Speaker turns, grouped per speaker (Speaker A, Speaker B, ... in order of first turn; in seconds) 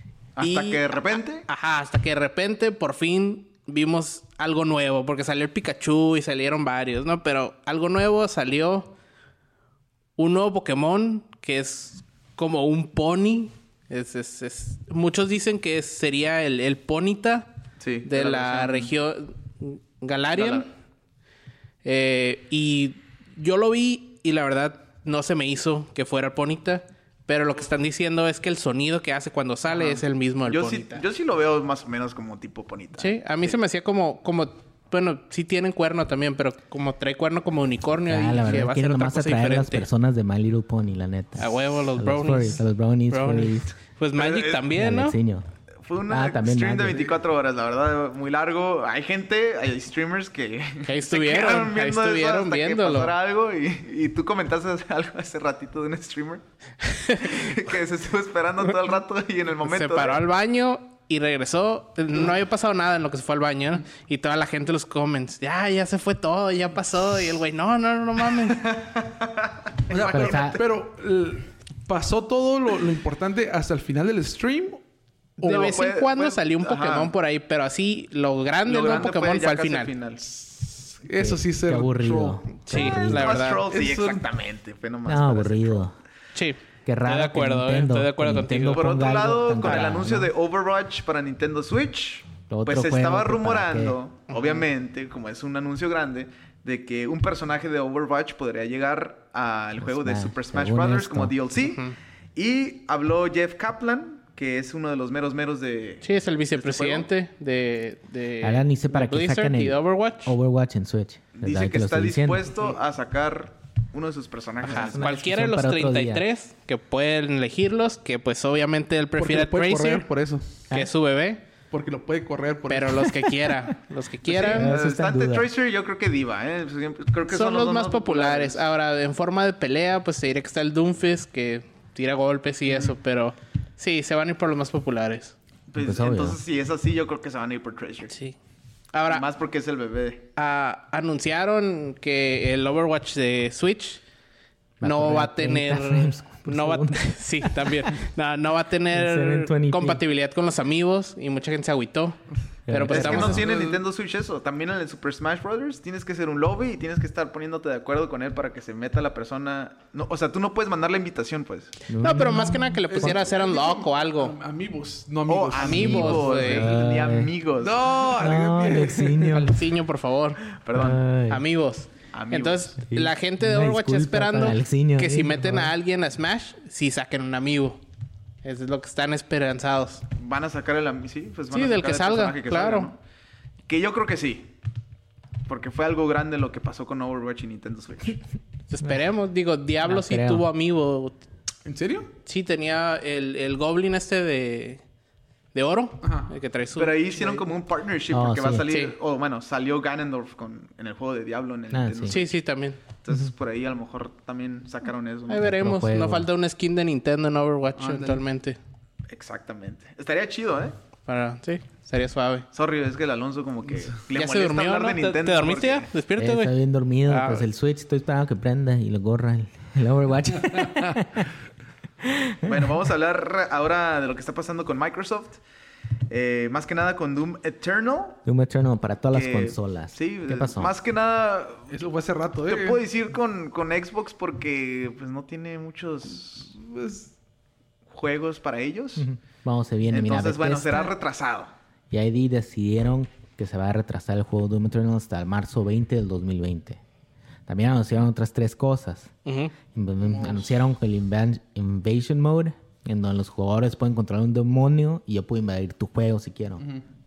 Speaker A: 0.3-1.4, 17.8-18.9, 20.3-20.6, 29.7-33.5, 44.1-44.7, 45.8-56.4, 57.2-60.2, 68.5-70.6, 75.4-77.1, 78.7-80.4, 82.7-85.9, 88.7-107.1, 111.3-115.1, 124.2-128.7, 132.7-132.9, 135.7-138.1, 139.1-140.2, 152.9-161.8, 165.3-168.1, 170.5-171.0, 172.1-172.8, 180.2-183.0, 183.7-184.5, 185.5-188.2, 196.8-202.3, 203.0-205.6, 209.1-210.7, 212.5-215.9, 222.4-225.4, 226.1-228.2, 229.1-231.7, 232.5-236.5, 237.9-239.1, 239.9-241.5
Speaker B: 0.4-8.9, 10.2-17.5, 18.0-20.7, 21.8-31.0, 33.0-39.9, 41.4-45.1, 50.9-53.1, 56.8-57.4, 59.6-68.7, 75.4-79.9, 82.7-83.6, 86.3-88.8, 89.6-89.9, 94.3-94.6, 101.6-101.9, 106.0-110.3, 114.7-120.0, 120.7-121.4, 122.7-124.7, 127.3-135.3, 138.1-138.3, 138.9-139.2, 140.4-144.0, 144.8-153.4, 162.0-164.3, 165.6-166.7, 169.3-170.4, 171.3-177.8, 178.4-180.0, 181.5-182.9, 188.7-191.2, 192.2-194.8, 195.5-197.4, 198.7-198.9, 202.1-202.8, 205.3-208.6, 211.1-212.4, 214.1-216.5, 217.1-217.4, 249.2-249.5
Speaker C: 38.0-43.7, 44.7-45.4, 46.1-47.1, 70.0-70.6, 81.2-83.5, 85.0-85.9, 86.8-90.3, 92.5-94.0, 99.8-101.3, 108.4-112.5, 114.6-116.2, 124.4-125.5, 135.8-136.4, 144.8-147.8, 148.9-150.0, 152.7-153.4, 161.9-163.2, 165.7-167.3, 168.1-169.6, 170.7-171.4, 172.9-175.7, 189.8-190.5, 198.1-198.7, 201.7-202.2, 205.4-206.3, 216.2-221.3, 222.0-222.7, 228.2-230.7, 239.0-240.9, 241.9-246.8, 247.5-249.1, 249.7-256.6
Speaker D: 69.9-74.8, 75.4-75.7, 81.0-82.4, 83.7-84.2, 119.2-120.6, 121.7-123.2, 153.2-153.8, 162.9-166.7, 167.6-169.4, 191.6-192.1, 196.0-196.3, 207.8-208.2, 231.7-232.8, 236.5-237.1, 250.0-250.6